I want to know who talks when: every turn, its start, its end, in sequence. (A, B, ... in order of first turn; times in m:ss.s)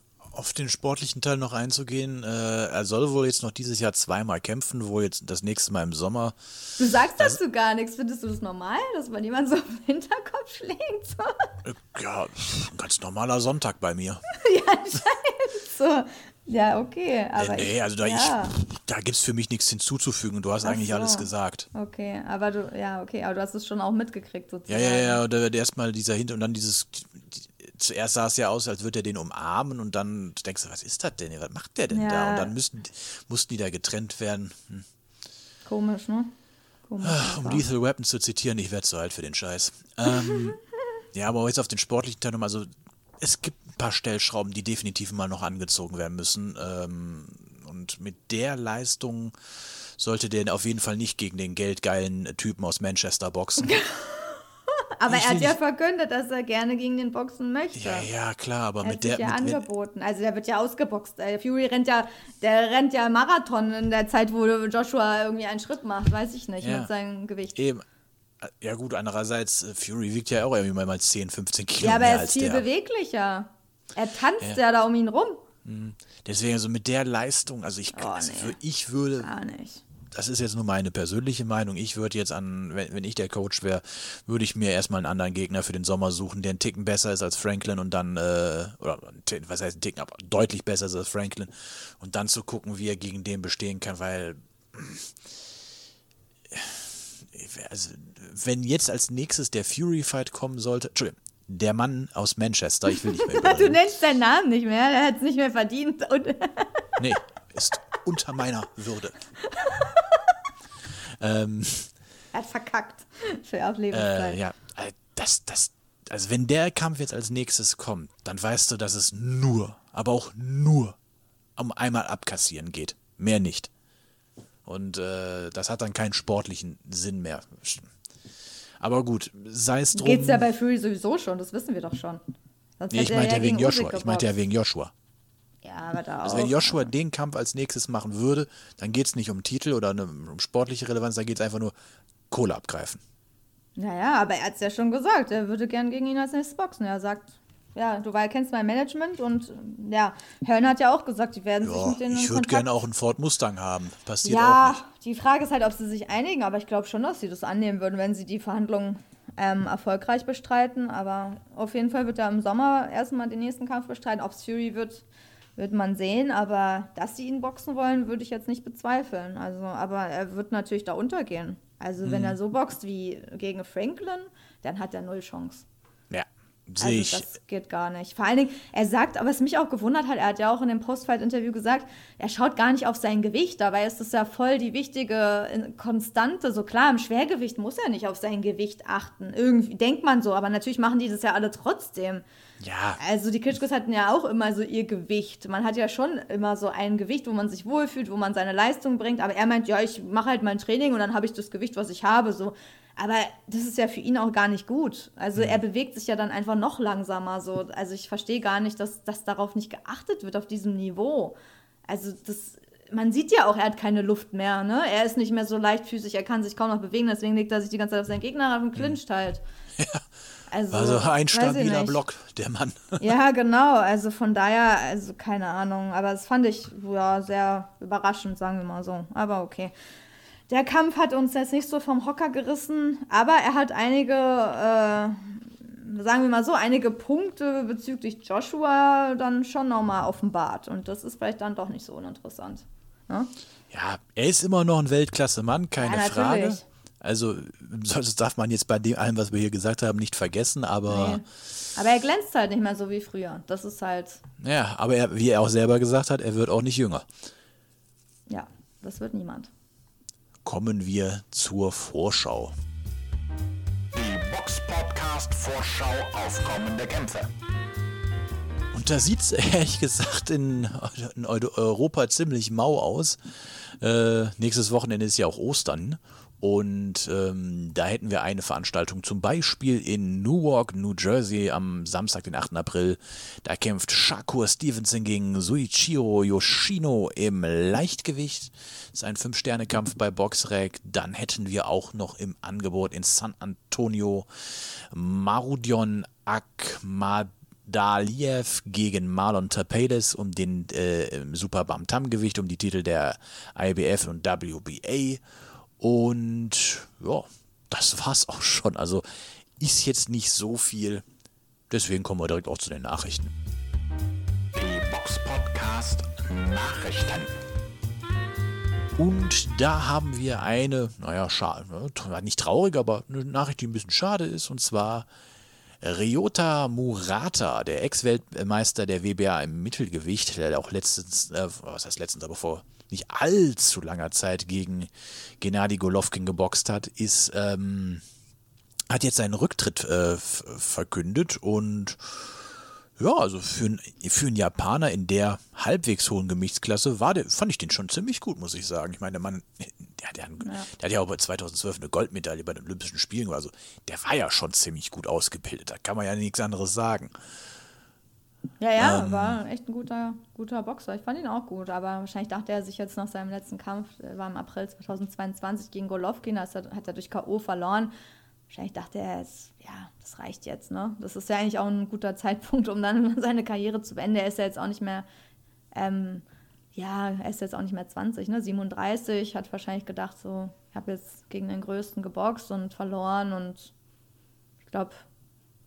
0:00.2-0:07.4 A
0:06.8-0:11.5 B
0:11.6-0:14.2 A
0:14.3-0:18.6 B
0:17.4-0:21.7 A
0:20.6-0:25.2 B
0:24.7-0:34.9 A
0:31.9-0:32.5 B
0:35.6-0:36.3 B
0:36.9-0:37.6 B
0:37.0-0:40.6 A
0:41.1-0:49.3 A
0:50.0-0:53.7 A
0:53.6-0:54.4 B
0:55.0-0:58.1 B
0:55.1-0:55.6 A
0:57.7-0:59.6 A
0:58.8-1:07.6 B
1:06.6-1:06.9 A
1:07.6-1:07.8 A
1:08.4-1:12.6 A
1:11.8-1:15.4 B
1:15.6-1:19.3 A
1:17.9-1:18.6 B
1:19.2-1:19.8 B
1:20.1-1:35.2 A
1:36.5-1:43.8 A
1:43.1-1:46.9 B
1:47.0-1:49.2 A
1:49.5-1:50.0 B
1:51.0-1:51.9 A
1:52.3-1:54.4 B
1:53.9-2:01.0 A
2:01.6-2:03.7 A
2:04.6-2:07.9 A
2:08.8-2:10.4 A
2:09.9-2:12.2 B
2:12.8-2:14.3 B
2:12.9-2:14.9 A
2:15.6-2:16.9 B
2:16.2-2:21.7 A
2:22.3-2:23.0 A
2:23.8-2:32.7 B
2:31.6-2:34.8 A
2:34.2-2:45.0 B
2:45.6-2:55.6 B
2:52.0-2:52.4 A
2:56.1-2:57.3 A
2:56.8-3:12.2 B
3:12.6-3:13.0 A
3:13.0-3:31.4 B
3:31.9-3:39.4 B
3:39.8-3:40.0 A
3:40.5-3:42.0 B
3:40.7-3:43.1 A
3:43.0-3:49.7 B
3:50.5-4:03.3 B
4:03.7-4:11.2 A
4:05.8-4:06.6 B
4:10.9-4:11.2 B
4:11.7-4:14.2 B
4:14.4-4:17.1 A
4:18.3-4:19.5 B
4:20.4-4:22.6 A
4:23.9-4:27.3 C
4:28.7-5:05.2 A
5:05.8-5:09.0 A
5:09.6-5:11.0 A
5:11.7-5:13.3 A
5:14.5-5:17.4 C
5:19.0-5:25.1 A
5:25.8-5:38.0 A
5:38.9-5:57.1 A
5:50.4-5:50.7 B
5:58.6-6:07.9 B
5:58.8-5:59.4 A
6:08.5-6:15.0 B
6:15.7-6:16.2 B
6:16.7-6:23.7 B
6:24.7-6:25.0 B